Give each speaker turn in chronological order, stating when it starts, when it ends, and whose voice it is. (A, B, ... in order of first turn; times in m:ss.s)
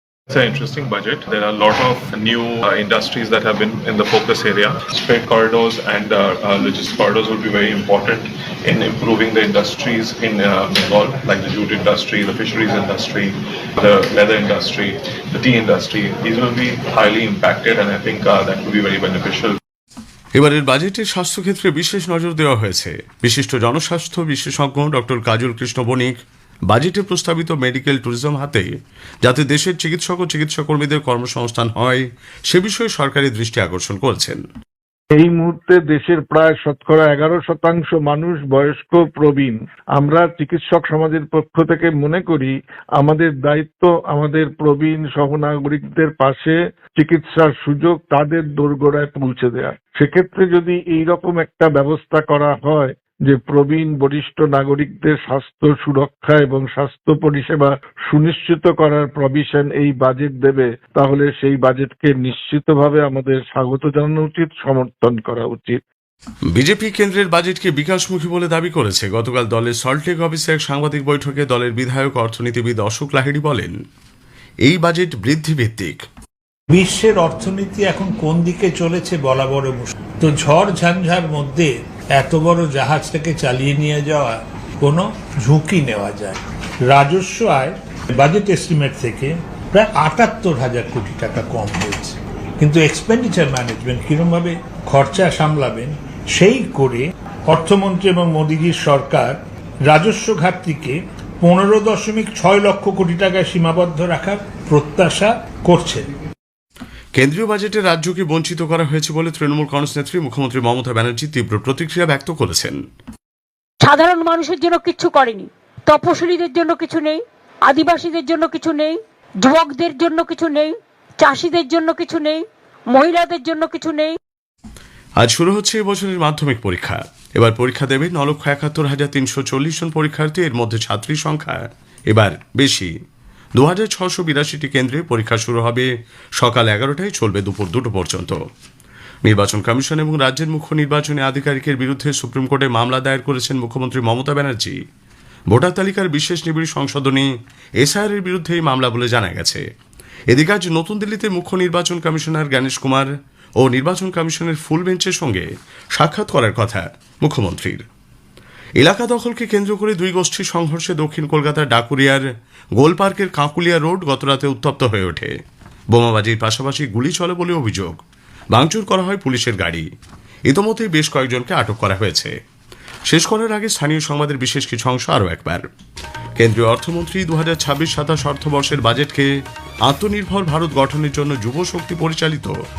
0:00.3-0:19.6 A
0:20.4-0:26.2 B
0:26.7-0:28.7 B
0:29.2-0:34.4 B
0:35.1-1:05.8 C
1:06.5-1:13.7 B
1:14.6-1:16.0 B
1:16.7-1:46.1 D
1:47.1-1:52.8 B
1:53.8-2:04.2 E
2:05.2-2:12.9 B
2:13.5-2:18.4 B
2:19.2-2:24.8 B
2:25.5-2:29.6 B
2:30.3-2:37.8 B
2:38.8-2:45.4 B
2:45.9-2:49.9 B
2:50.5-2:52.3 B
2:53.1-2:55.7 B
2:56.4-2:59.3 B
2:59.8-3:02.5 B